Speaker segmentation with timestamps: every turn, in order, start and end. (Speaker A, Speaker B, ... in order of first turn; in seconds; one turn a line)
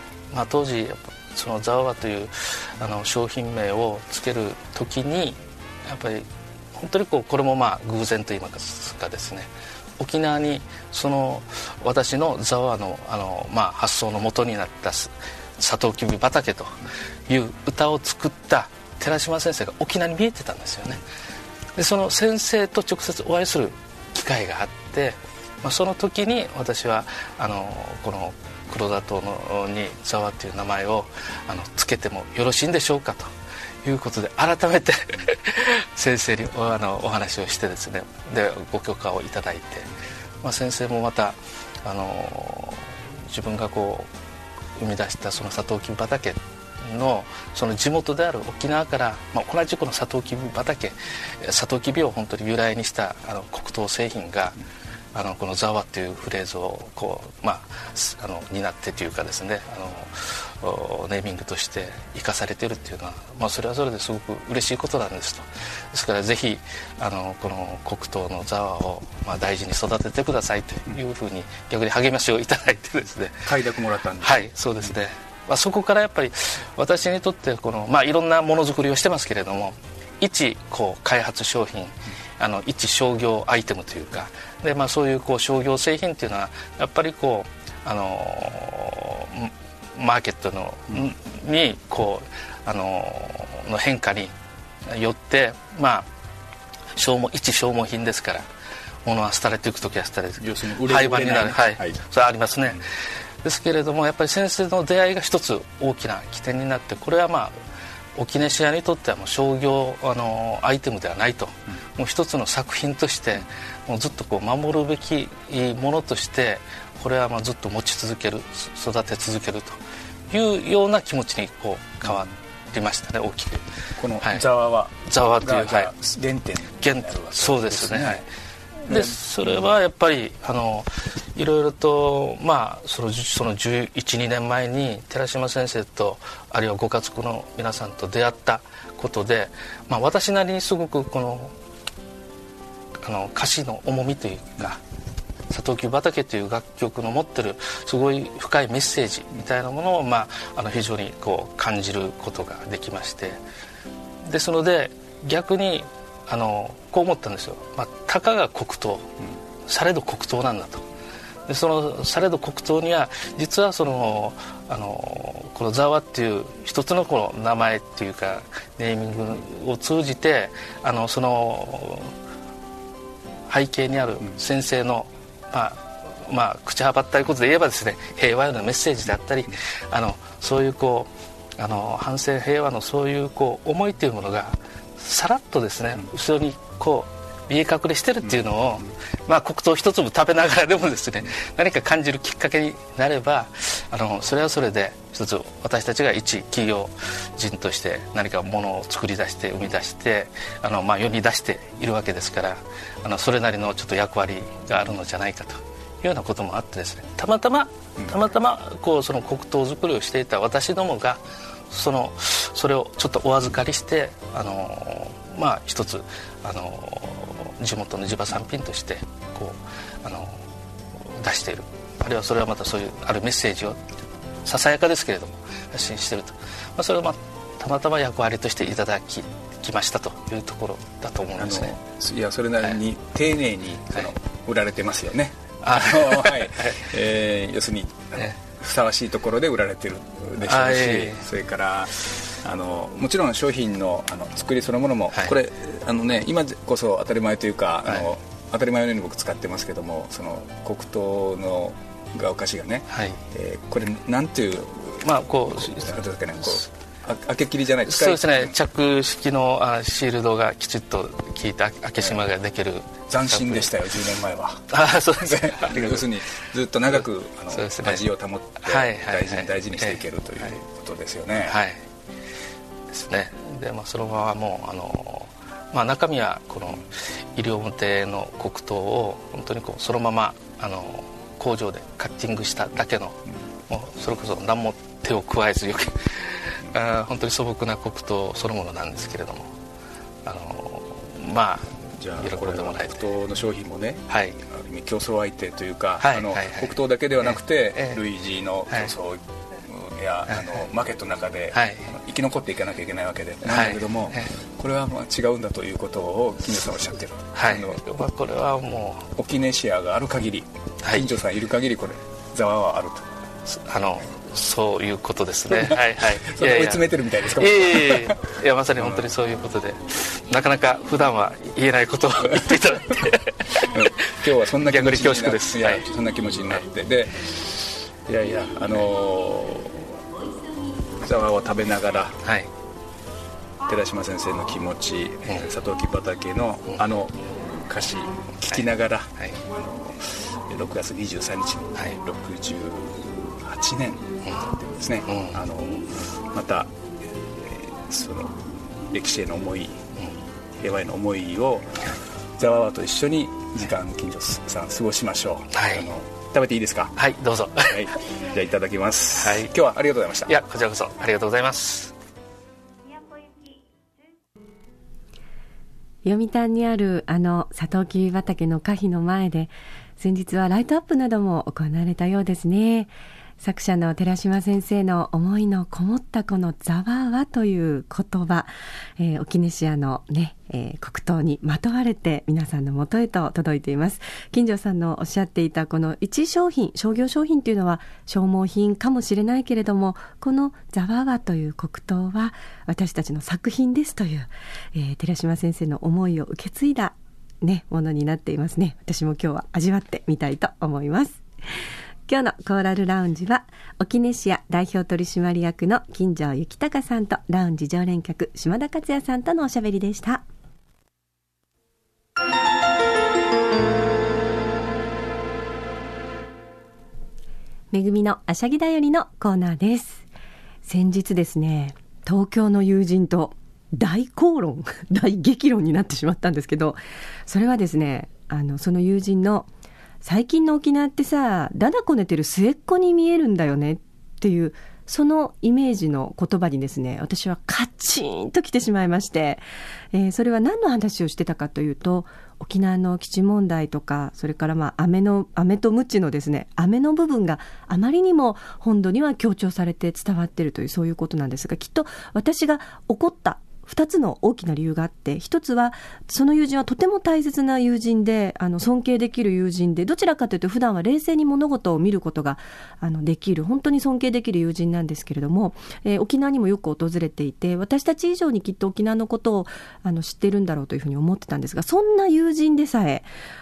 Speaker A: 0.3-21.0
Speaker A: 21.8-33.3
Speaker A: 33.8-39.9
Speaker A: 40.4-44.1
Speaker A: 44.8-54.5
Speaker A: 55.1-73.5
Speaker B: 73.5-74.4
Speaker A: 74.2-94.3
Speaker A: 94.8-96.1
Speaker A: 96.9-98.5
Speaker A: 99.0-102.8
Speaker B: 100.4-102.0
Speaker A: 103.4-107.5
Speaker A: 108.1-119.8
Speaker A: 120.3-123.6
Speaker B: 124.0-128.2
Speaker A: 125.0-125.9
Speaker A: 126.8-128.2
Speaker A: 128.9-141.5
Speaker B: 128.9-129.7
Speaker A: 143.0-144.8
Speaker A: 145.5-153.4
Speaker A: 154.2-159.1
Speaker A: 159.7-160.8
Speaker A: 161.5-172.1
Speaker A: 173.5-223.8
Speaker A: 224.4-231.8
Speaker B: 231.4-258.5
Speaker A: 235.6-236.8
Speaker A: 240.4-241.2
Speaker A: 252.9-253.2
Speaker A: 255.0-255.9
Speaker A: 257.9-263.7
Speaker B: 263.1-271.6
Speaker A: 264.7-266.1
Speaker A: 267.5-268.1
Speaker A: 268.6-270.5
Speaker A: 271.5-271.8
Speaker A: 272.9-289.6
Speaker A: 290.2-293.1
Speaker B: 292.0-307.8
Speaker A: 294.1-294.4
Speaker A: 296.0-298.0
Speaker A: 301.5-301.9
Speaker A: 303.5-304.3
Speaker A: 307.3-309.1
Speaker B: 309.2-313.1
Speaker A: 310.8-311.1
Speaker A: 313.5-325.8
Speaker B: 315.5-318.2
Speaker B: 318.8-319.1
Speaker B: 323.7-330.0
Speaker B: 331.0-332.2
Speaker A: 332.2-332.5
Speaker B: 333.6-346.8
Speaker A: 345.1-345.4
Speaker B: 347.4-349.8
Speaker B: 350.6-356.9
Speaker A: 355.5-355.9
Speaker A: 356.9-357.9
Speaker B: 357.7-360.3
Speaker A: 359.2-359.5
Speaker A: 360.3-361.9
Speaker C: 366.0-401.2
Speaker C: 402.1-410.2
Speaker C: 417.7-420.1
Speaker C: 420.6-429.5
Speaker C: 430.0-439.4
Speaker C: 439.9-473.1